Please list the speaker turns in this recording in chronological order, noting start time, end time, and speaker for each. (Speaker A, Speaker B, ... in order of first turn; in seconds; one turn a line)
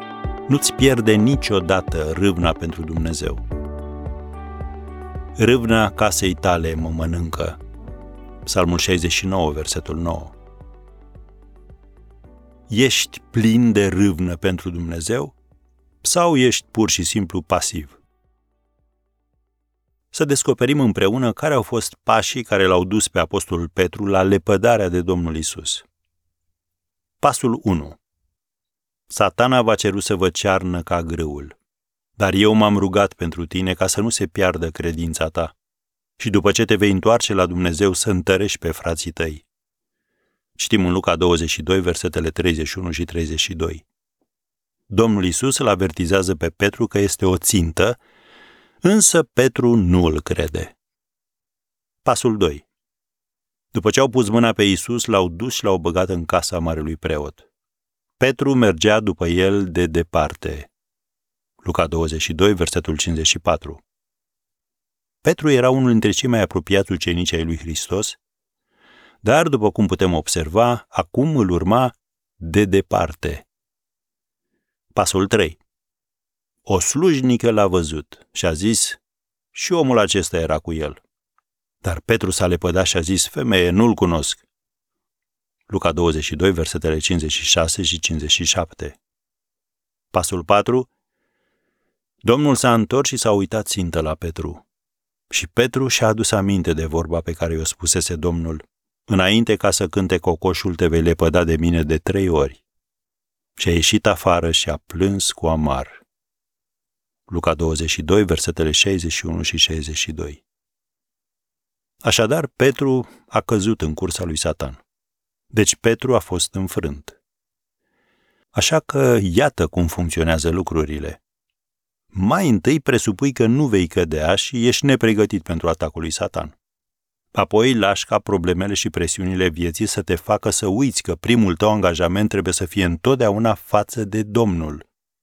Speaker A: 0.5-3.4
Speaker A: 5.4-7.6
Speaker A: 8.4-10.3
Speaker A: 12.7-15.3
Speaker A: 16.0-18.0
Speaker A: 20.1-25.8
Speaker A: 27.2-28.0
Speaker A: 29.1-31.6
Speaker A: 32.2-35.5
Speaker A: 36.2-39.5
Speaker A: 40.6-43.8
Speaker A: 44.9-48.0
Speaker A: 48.8-50.7
Speaker A: 52.0-52.6
Speaker A: 53.7-57.5
Speaker A: 58.2-60.7
Speaker A: 61.6-63.8
Speaker A: 65.2-68.2
Speaker A: 69.2-73.5
Speaker A: 74.9-75.6
Speaker A: 76.7-79.0
Speaker A: 79.5-81.0
Speaker A: 81.8-84.4
Speaker A: 85.7-89.0
Speaker A: 90.1-90.9
Speaker A: 92.2-94.6
Speaker A: 95.3-102.6
Speaker A: 103.6-106.0
Speaker A: 107.3-110.4
Speaker A: 112.0-114.8
Speaker A: 115.5-117.2
Speaker A: 118.5-121.2
Speaker A: 122.1-126.5
Speaker A: 127.3-134.8